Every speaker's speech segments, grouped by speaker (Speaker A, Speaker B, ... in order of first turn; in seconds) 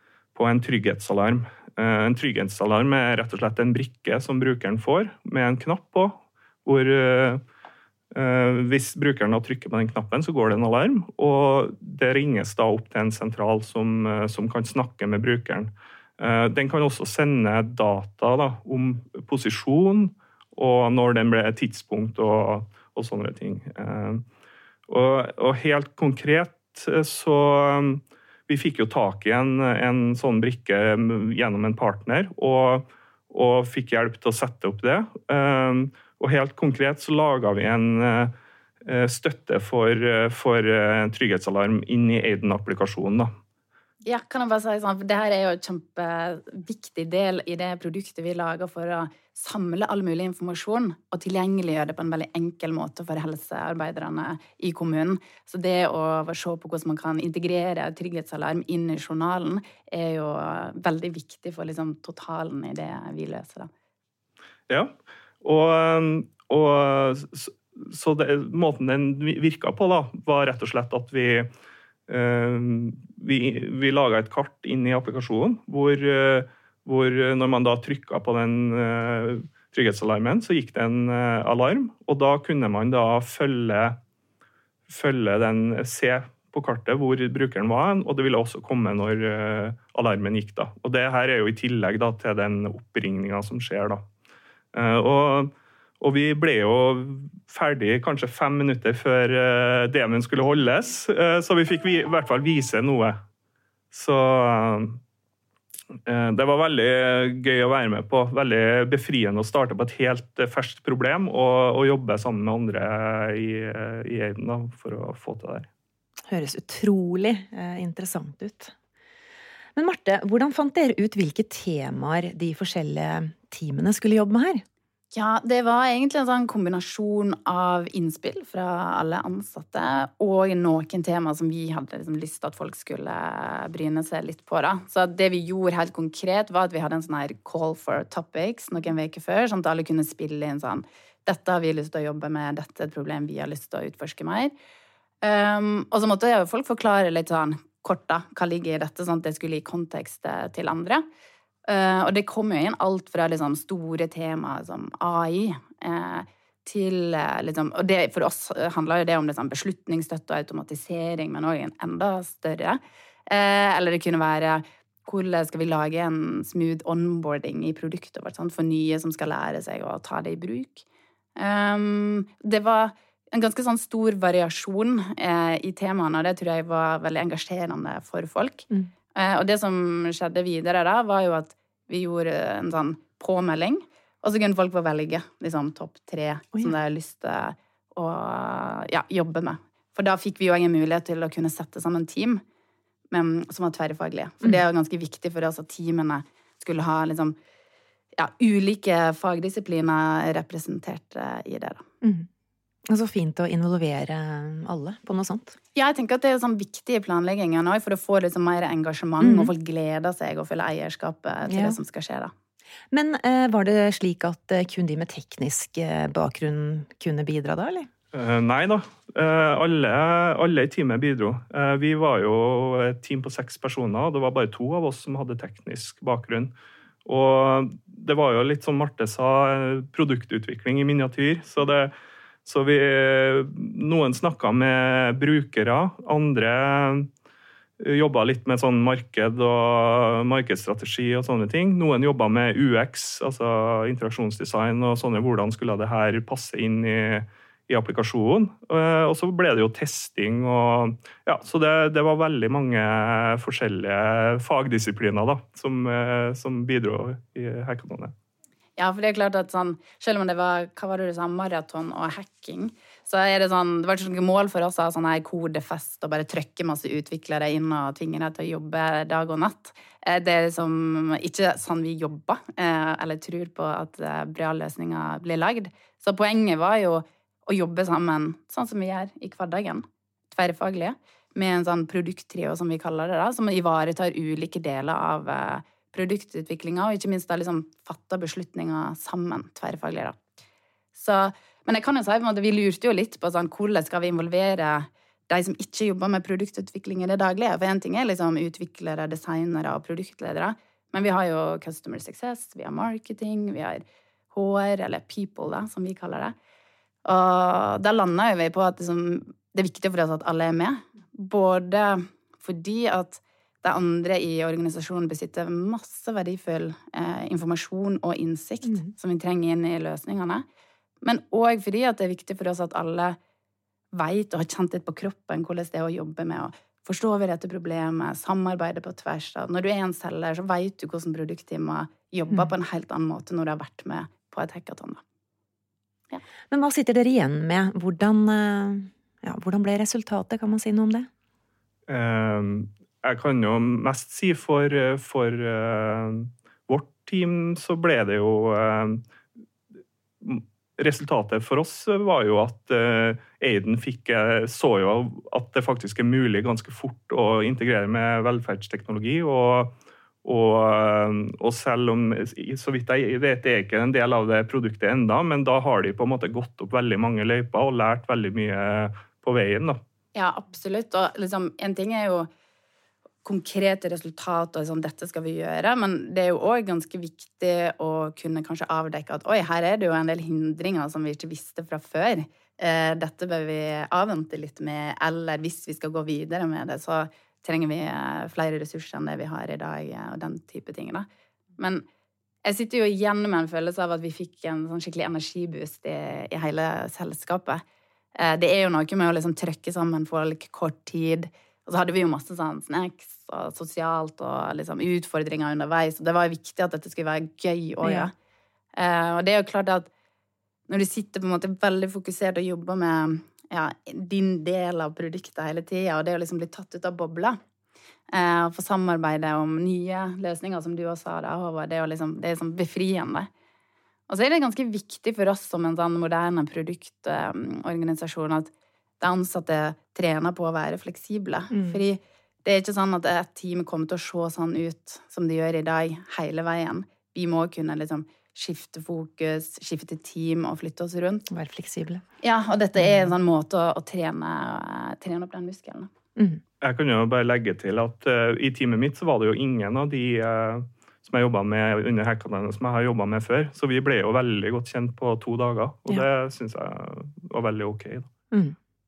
Speaker A: 0.3-7.4, 8.1-24.2, 24.9-38.3, 38.8-43.3, 64.7-71.5, 72.1-84.0, 84.9-94.0, 94.7-103.2, 103.9-105.0, 106.1-115.7, 218.1-226.5, 227.1-231.9, 232.4-237.1, 237.8-258.1, 341.9-349.0, 350.2-369.8, 446.6-458.1
Speaker B: 44.0-63.7, 125.1-144.5, 145.2-151.0, 151.7-170.8, 171.4-192.4, 193.1-197.4, 198.2-201.8, 205.8-212.3, 258.8-290.2, 290.9-306.3, 307.1-320.4, 321.0-323.2, 323.9-335.0, 370.1-372.3, 373.2-391.1, 391.6-391.9, 392.4-397.6, 398.1-408.1, 408.8-409.9, 410.7-417.4, 418.1-423.3, 424.1-441.3, 442.2-445.9
Speaker C: 116.3-118.7, 119.8-124.6, 202.0-202.3, 202.9-205.6, 209.2-209.5, 211.5-211.8, 212.9-217.9, 336.5-341.1, 407.8-408.1, 431.5-431.8, 441.3-442.0, 446.2-446.4